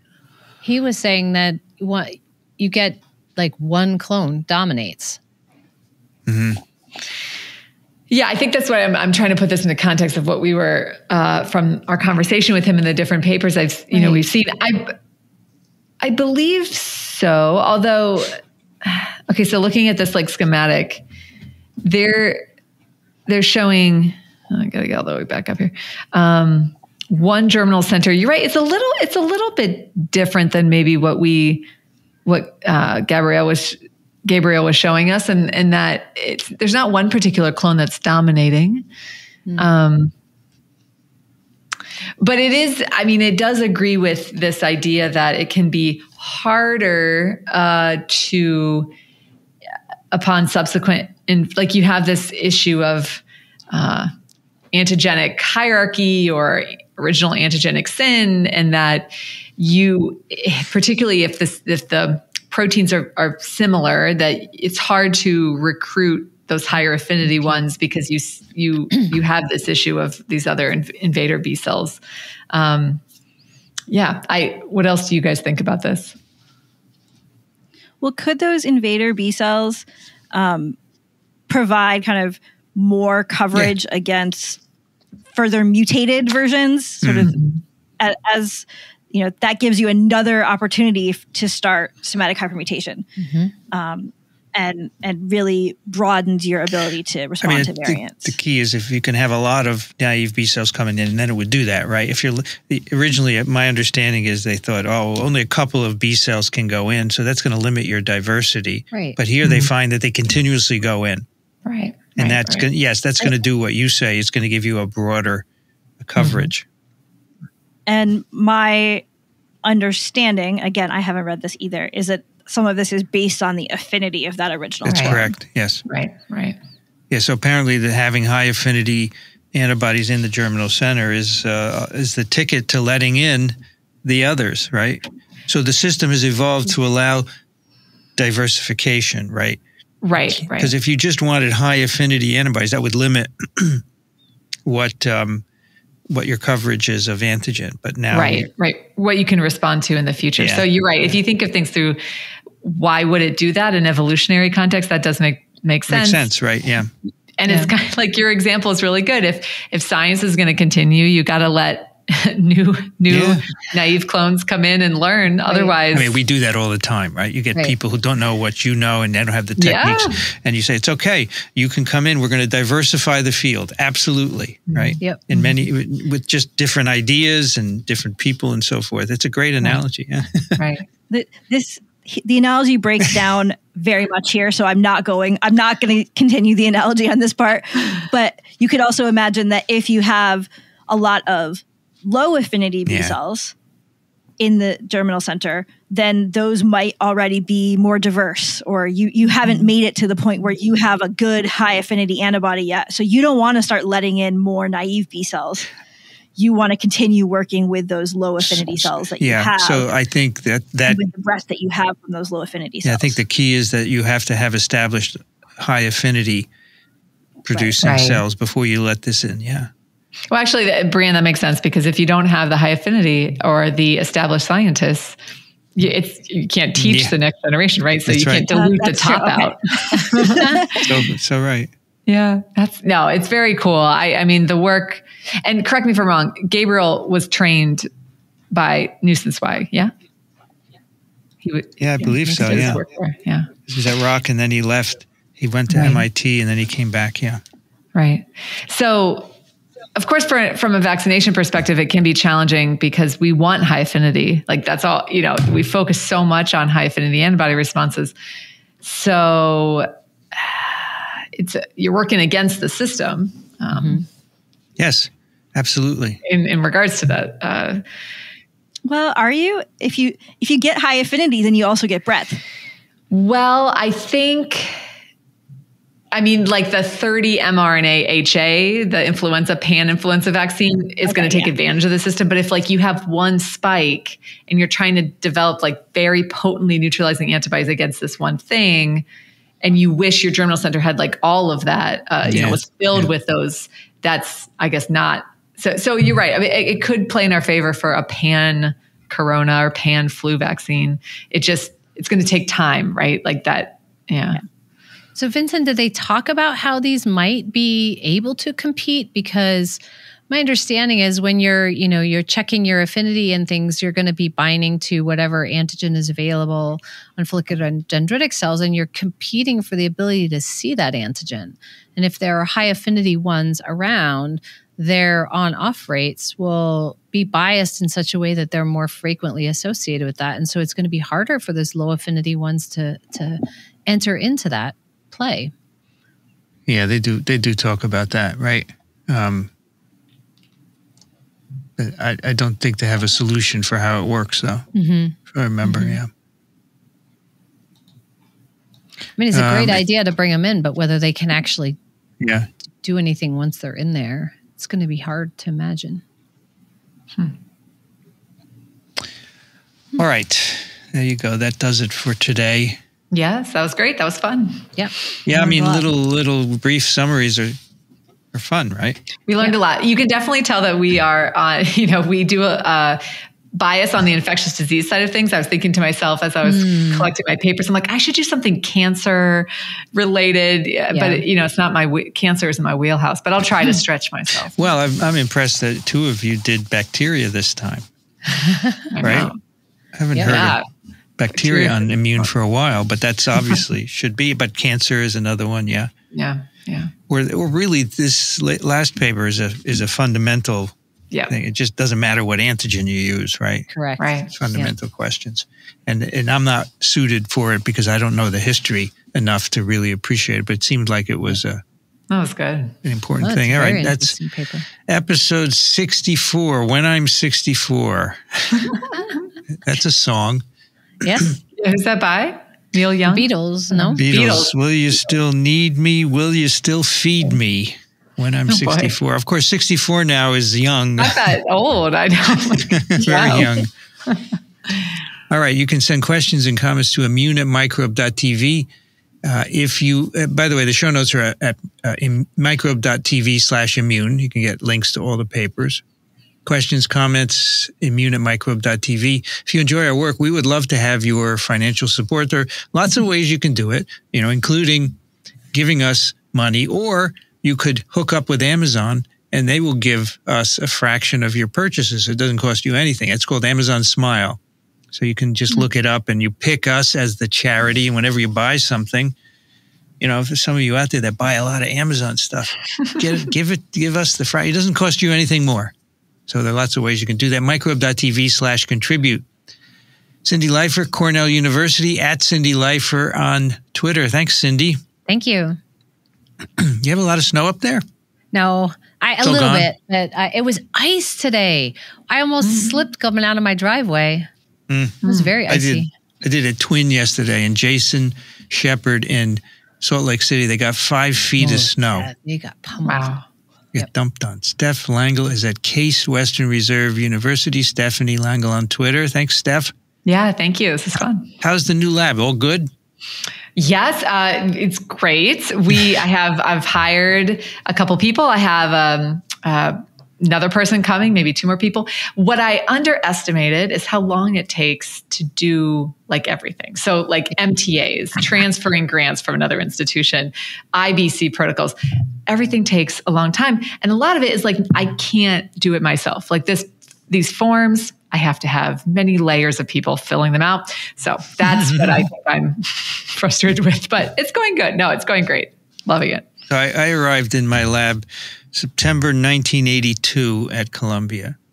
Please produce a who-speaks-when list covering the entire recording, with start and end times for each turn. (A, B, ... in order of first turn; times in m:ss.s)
0:00.6-0:05.2 A
0:06.3-0:06.6 B
0:08.1-0:15.0 C
0:13.9-0:14.2 A
0:16.0-0:21.0 C
0:21.8-0:22.5 C
0:23.3-0:31.7 C
0:32.2-0:38.9 C
0:39.6-0:40.1 C
0:42.2-0:48.9 C
0:50.1-0:54.1 C
0:54.7-1:12.0 C
1:12.5-1:13.0 C
1:13.9-1:16.2 C
1:18.0-1:20.8 D
1:21.5-1:24.6 D
1:25.3-1:27.4 D
1:27.0-1:27.3 B
1:27.3-1:27.6 C
1:28.0-1:33.1 D
1:33.2-1:33.5 A
1:33.7-1:38.4 D
1:37.4-1:51.2 B
1:48.9-1:49.2 A
1:49.4-1:49.7 C
1:51.6-1:52.7 C
1:52.2-1:55.4 B
1:56.0-1:56.6 B
1:56.2-1:56.5 C
1:57.9-1:59.0 D
1:59.6-2:05.3 D
2:04.8-2:05.8 B
2:04.9-2:05.2 C
2:05.9-2:06.6 C
2:07.1-2:17.3 B
2:18.2-2:19.6 B
2:20.0-2:20.7 C
2:20.3-2:23.8 B
2:24.7-2:25.4 B
2:26.1-2:28.5 B
2:28.1-2:32.0 C
2:30.4-2:30.7 B
2:32.6-2:36.3 C
2:35.9-2:36.9 B
2:37.4-2:46.1 C
2:43.1-2:43.5 B
2:45.5-2:45.7 A
2:45.9-3:00.6 B
2:49.6-2:50.2 C
2:54.7-2:55.6 C
3:00.6-3:00.9 C
3:01.1-3:13.5 D
3:12.9-3:13.2 B
3:14.4-3:25.7 D
3:26.4-3:29.9 D
3:28.4-3:31.0 B
3:30.9-3:33.2 D
3:32.8-3:36.5 B
3:37.4-3:39.7 B
3:37.8-3:38.2 C
3:40.3-3:45.2 C
3:45.8-3:50.6 C
3:46.8-3:47.1 B
3:48.1-3:48.5 B
3:48.5-3:50.8 D
3:50.3-3:51.7 B
3:52.1-3:57.9 C
3:58.5-3:59.9 C
4:01.4-4:03.5 C
4:01.8-4:02.8 B
4:03.7-4:07.4 B
4:05.7-4:06.0 C
4:07.9-4:09.3 C
4:10.0-4:18.1 C
4:18.8-4:24.0 C
4:23.8-4:24.0 A
4:24.8-4:26.2 B
4:26.2-4:27.8 C
4:28.9-4:32.4 D
4:33.1-4:34.8 C
4:36.1-4:49.1 C
4:41.1-4:41.5 D
4:49.6-5:04.4 C
4:52.2-4:52.6 B
5:05.2-5:35.5 A
5:36.7-5:39.5 B
5:41.8-5:44.7 B
5:44.7-5:45.2 A
5:45.3-5:46.1 B
5:45.7-5:46.0 A
5:49.2-5:51.8 A
5:49.3-5:49.8 B
5:52.2-5:52.5 B
5:52.8-5:56.0 A
6:00.0-6:02.8 B
6:03.1-6:04.7 C
6:04.8-6:05.8 A
6:05.3-6:07.6 B
6:08.3-6:09.0 B
6:09.3-6:24.6 C
6:16.4-6:17.1 A
6:20.9-6:21.2 A
6:24.6-6:27.8 B
6:28.9-6:29.4 C
6:29.0-6:29.3 B
6:30.0-6:30.6 B
6:30.2-6:30.7 C
6:31.2-6:35.9 B
6:31.3-6:31.9 C
6:36.1-6:36.9 C
6:37.1-6:40.7 B
6:41.3-6:43.7 B
6:43.7-6:44.7 A
6:44.0-6:44.3 C
6:44.3-6:51.6 B
6:52.1-6:52.8 C
6:52.8-6:54.2 B
6:53.2-6:54.7 A
6:54.8-6:58.8 B
6:58.6-6:59.1 C
6:59.5-7:00.4 B
7:01.0-7:01.4 A
7:01.5-7:04.5 C
7:03.1-7:04.0 A
7:04.0-7:11.3 B
7:08.5-7:09.0 C
7:11.0-7:14.9 C
7:12.6-7:13.7 B
7:15.3-7:18.7 B
7:19.2-7:25.8 B
7:26.4-7:35.0 B
7:35.5-7:44.4 B
7:44.9-7:49.1 B
7:50.0-7:55.7 B
7:56.3-7:59.2 B
8:00.2-8:04.8 B
8:05.1-8:05.6 A
8:06.6-8:07.8 B
8:08.3-8:14.3 A
8:09.2-8:09.7 B
8:12.4-8:12.8 C
8:14.7-8:22.1 B
8:15.0-8:15.9 A
8:15.0-8:15.3 C
8:21.4-8:23.1 A
8:22.8-8:23.2 C
8:23.7-8:29.7 B
8:30.0-8:31.3 C
8:31.4-8:32.7 B
8:33.6-8:51.8 C
8:52.3-9:06.3 C
9:01.6-9:01.9 B
9:06.5-9:11.4 B